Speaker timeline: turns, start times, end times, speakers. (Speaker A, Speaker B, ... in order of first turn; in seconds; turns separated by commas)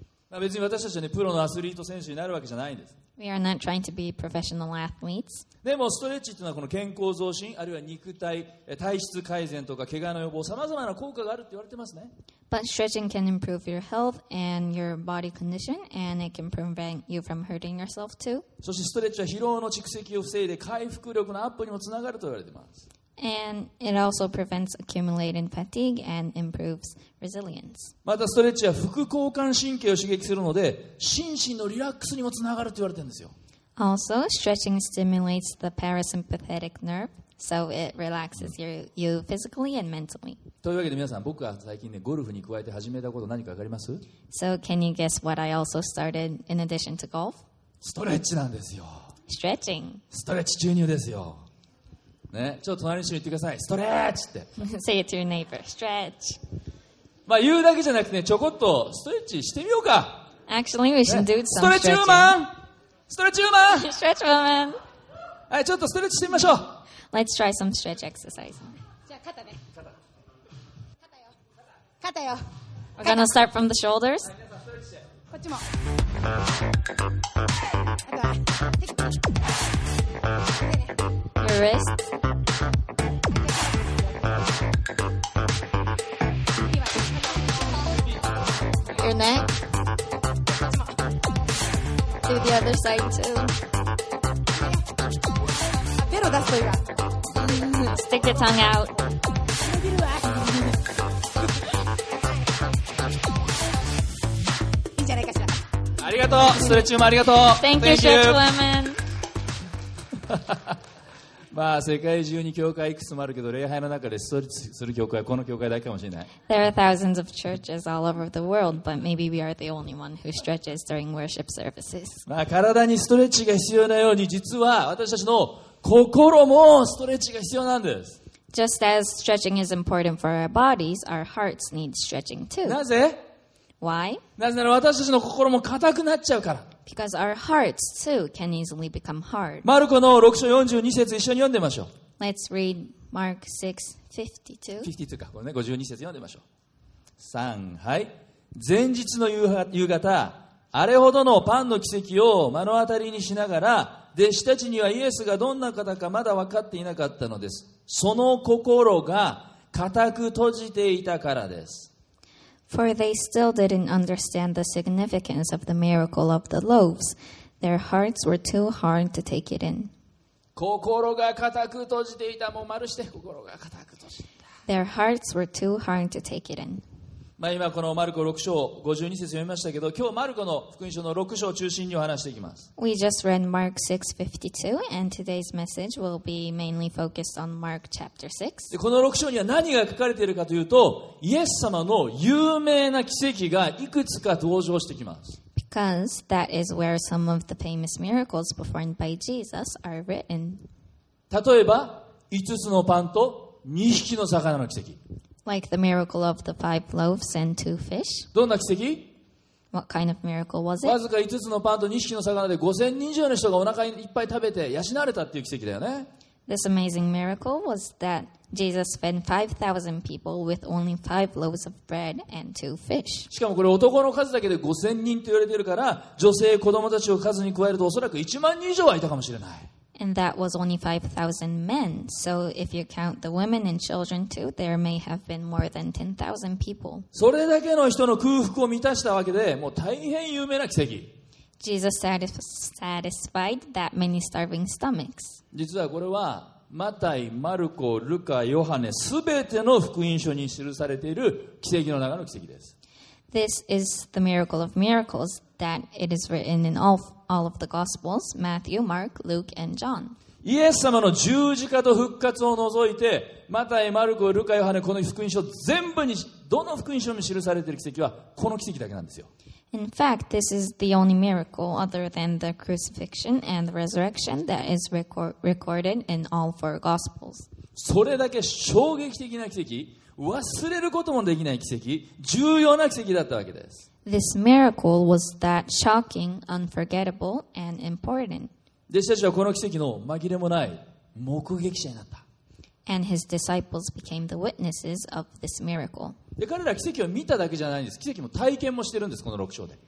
Speaker A: 0.3-3.0, Speaker B: 3.2-5.5, Speaker A: 5.6-12.1, Speaker B: 12.5-18.5, Speaker A: 18.6-22.8, Speaker B: 23.2-27.9, Speaker A: 28.1-33.3, Speaker B: 33.8-40.4, Speaker A: 40.6-44.0, Speaker B: 44.3-47.4, Speaker A: 47.8-49.1, Speaker B: 49.3-50.0, Speaker A: 50.1-51.5, Speaker A: 52.3-54.5, Speaker B: 54.6-56.4, Speaker A: 57.3-60.3, Speaker B: 60.5-62.4, Speaker A: 61.1-62.6, Speaker A: 63.1-63.9, Speaker B: 63.7-64.8, Speaker A: 65.5-66.8, Speaker B: 67.1-68.7, Speaker C: 69.1-69.6, Speaker C: 72.0-72.5, Speaker B: 73.0-74.3, Speaker C: 75.3-75.7, Speaker C: 78.1-79.3, Speaker C: 80.6-80.9, Speaker B: 81.4-82.1, Speaker C: 83.3-84.0, Speaker C: 86.7-88.0, Speaker B: 88.9-89.5, Speaker C: 90.5-91.0, Speaker B: 92.3-93.6, Speaker C: 94.6-94.8, Speaker C: 96.0-96.9, Speaker B: 97.4-99.0, Speaker C: 99.6-100.8, Speaker C: 105.0-105.6, Speaker A: 106.0-108.5, Speaker B: 107.5-109.0, Speaker A: 110.3-110.8, Speaker A: 111.5-116.3, Speaker B: 116.5-122.2, Speaker A: 122.3-128.2, Speaker B: 128.5-132.8, Speaker A: 132.6-133.3, Speaker B: 133.8-134.2, Speaker A: 134.4-136.7, Speaker B: 136.9-139.7, Speaker A: 139.6-141.9, Speaker B: 142.2-144.9, Speaker A: 144.8-146.4, Speaker A: 147.2-161.9, Speaker B: 162.7-169.9, Speaker A: 170.6-174.3, Speaker B: 174.7-176.8, Speaker A: 177.4-182.7, Speaker B: 182.8-188.7, Speaker A: 188.7-195.4, Speaker B: 195.6-200.7, Speaker A: 201.3-205.0, Speaker B: 205.4-208.3, Speaker A: 208.3-209.1, Speaker B: 209.7-211.0, Speaker A: 210.8-216.1, Speaker B: 216.5-223.3, Speaker A: 223.3-229.7, Speaker B: 230.0-237.1, Speaker A: 237.1-241.1, Speaker B: 241.6-245.4, Speaker A: 245.5-252.7, Speaker B: 253.3-260.2, Speaker A: 260.4-269.3, Speaker B: 269.7-277.5, Speaker A: 277.8-283.9, Speaker B: 284.1-288.5, Speaker A: 288.9-292.2, Speaker B: 292.9-296.2, Speaker A: 296.4-299.8